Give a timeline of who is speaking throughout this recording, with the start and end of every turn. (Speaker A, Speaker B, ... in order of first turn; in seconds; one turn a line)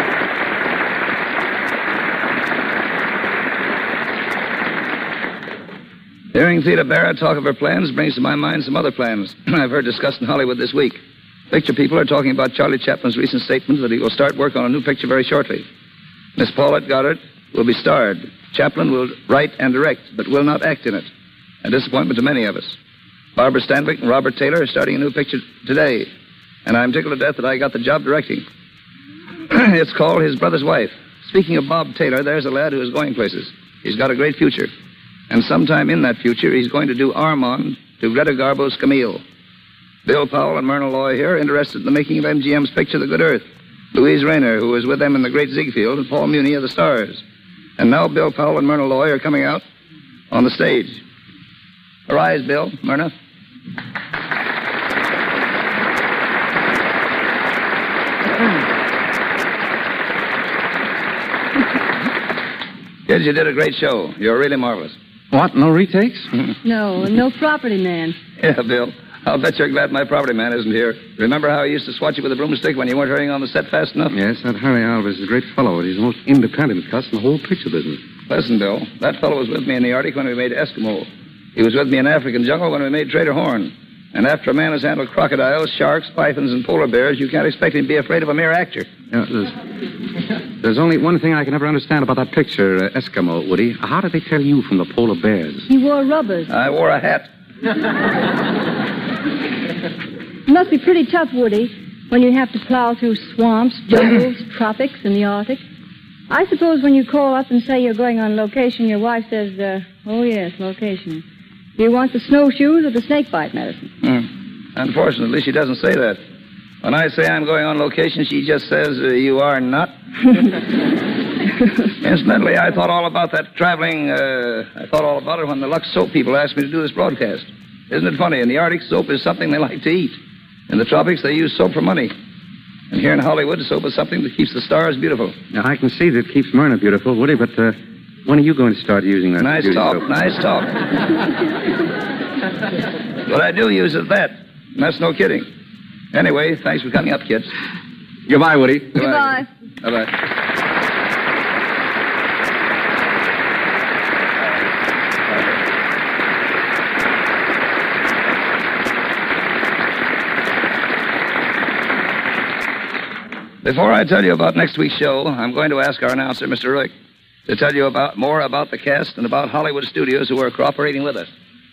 Speaker A: 6.3-15.7
Speaker A: 16.4-21.1
Speaker A: 21.6-22.8
Speaker A: 23.4-26.1
Speaker A: 26.6-28.4
Speaker A: 29.5-34.7
Speaker A: 35.3-39.2
Speaker A: 40.0-47.2
Speaker A: 47.8-49.6
Speaker A: 50.3-51.0
Speaker A: 52.1-53.1
Speaker A: 63.1-65.0
Speaker B: 65.3-66.3
Speaker C: 66.6-68.2
Speaker A: 68.4-74.1
Speaker B: 74.1-78.0
Speaker A: 78.3-88.9
Speaker B: 89.1-89.6
Speaker B: 90.6-95.7
Speaker C: 95.7-96.5
Speaker A: 96.5-97.3
Speaker C: 100.5-105.6
Speaker C: 106.3-111.2
Speaker C: 111.8-113.9
Speaker A: 114.0-116.2
Speaker A: 116.8-119.9
Speaker A: 122.0-130.2
Speaker A: 130.7-132.1
Speaker A: 132.9-135.4
Speaker B: 135.5-140.1
Speaker A: 139.4-140.7
Speaker A: 143.2-145.5
Speaker A: 146.1-147.5
Speaker B: 148.3-149.0
Speaker A: 148.9-150.1
Speaker C: 149.0-149.4
Speaker A: 163.6-166.9
Speaker A: 167.5-171.3